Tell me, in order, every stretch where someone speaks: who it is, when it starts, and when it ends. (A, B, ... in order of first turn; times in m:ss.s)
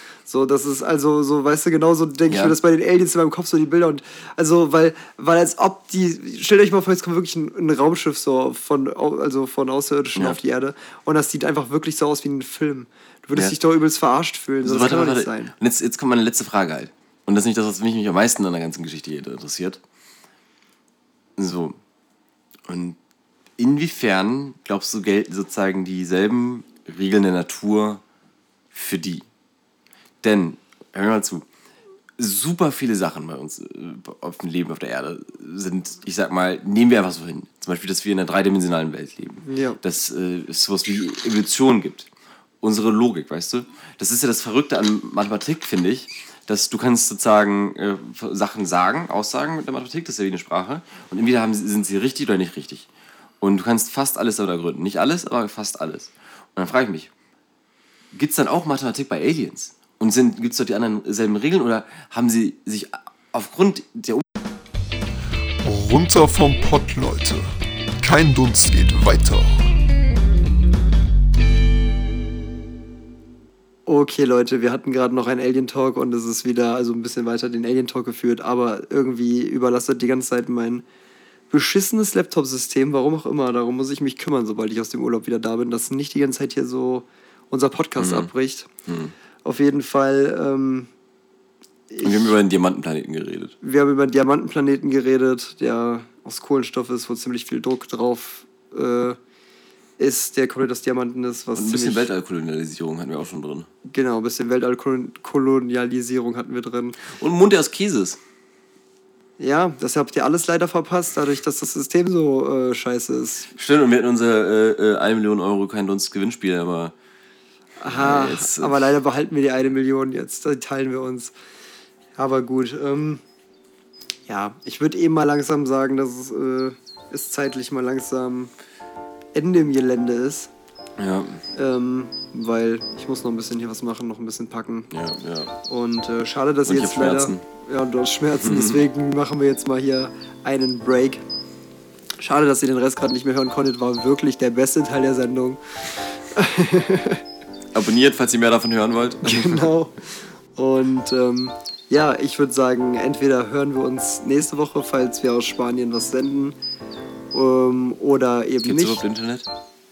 0:00.3-0:15.5 A
0:02.3-0:02.5 B
0:14.6-0:19.8 B
0:21.4-0:21.8 B
0:22.6-0:23.0 B
0:23.6-0:28.0 B
0:28.7-0:29.2 B
0:30.2-0:31.4 B
0:32.2-0:42.1 B
0:39.4-0:39.8 A
0:42.6-0:52.9 B
0:53.4-0:57.1 B
0:58.1-1:04.2 B
1:05.6-1:09.7 C
1:13.8-1:20.8 A
1:21.5-1:28.7 A
1:28.0-1:28.3 B
1:28.8-1:29.1 B
1:29.4-1:30.9 A
1:31.9-1:32.3 A
1:32.0-1:33.5 B
1:33.6-1:39.2 A
1:40.0-1:42.1 A
1:41.6-1:43.7 B
1:43.8-1:47.0 A
1:47.1-1:48.2 B
1:49.4-1:53.5 A
1:53.6-1:56.9 B
1:57.8-2:01.3 A
1:57.9-1:59.0 B
2:02.2-2:03.2 A
2:04.3-2:08.5 A
2:09.3-2:10.5 A
2:11.0-2:11.4 B
2:11.5-2:14.9 A
2:14.9-2:15.6 B
2:15.7-2:21.2 A
2:16.6-2:17.4 B
2:18.3-2:18.8 B
2:22.2-2:27.2 A
2:27.7-2:29.7 B
2:29.2-2:36.6 A
2:37.3-2:39.0 A
2:38.6-2:39.5 B